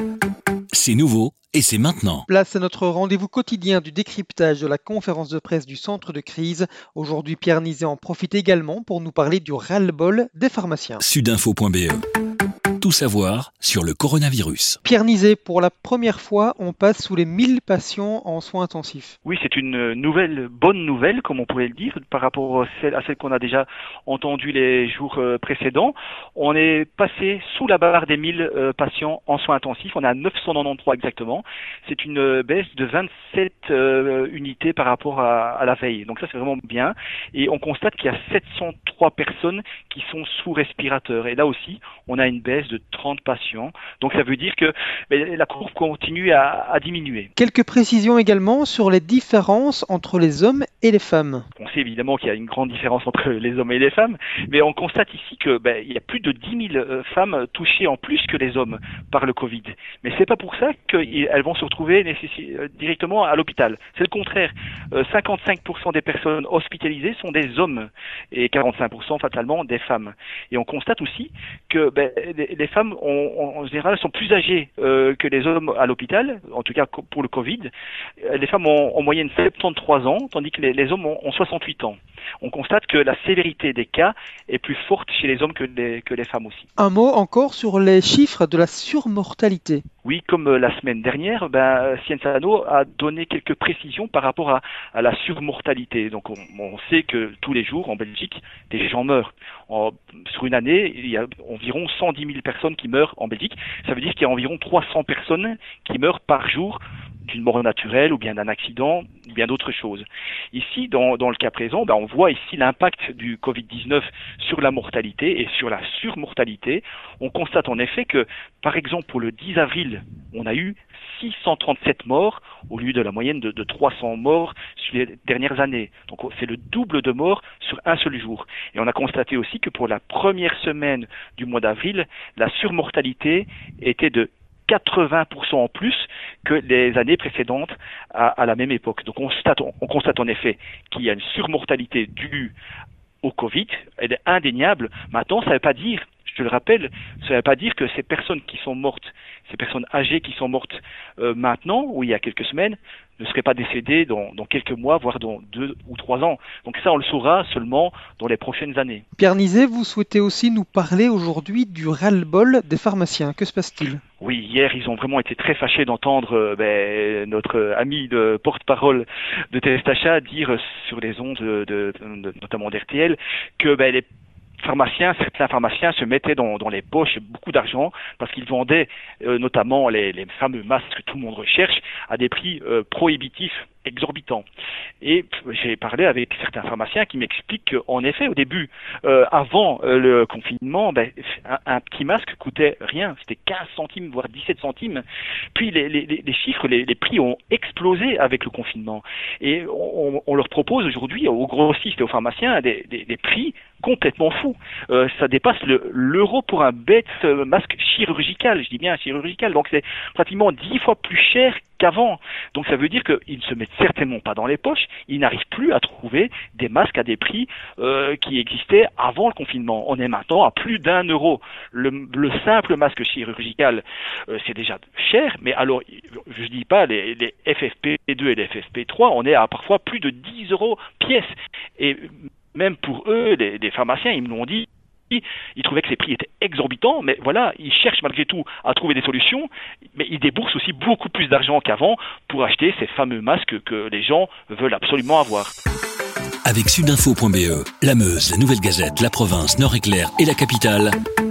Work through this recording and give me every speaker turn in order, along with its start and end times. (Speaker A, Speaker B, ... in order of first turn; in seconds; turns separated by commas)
Speaker A: 0.7-2.2, Speaker B: 2.3-11.0, Speaker A: 11.0-12.0, Speaker A: 12.8-14.8, Speaker B: 14.8-19.1, Speaker C: 19.2-47.3, Speaker B: 47.4-51.5, Speaker C: 51.5-77.7, Speaker C: 78.2-86.7, Speaker B: 86.8-89.8, Speaker C: 90.0-142.5, Speaker C: 143.2-159.0, Speaker B: 159.2-164.0, Speaker C: 164.2-174.1, Speaker C: 174.6-184.4, Speaker C: 185.0-245.6, Speaker A: 246.4-250.9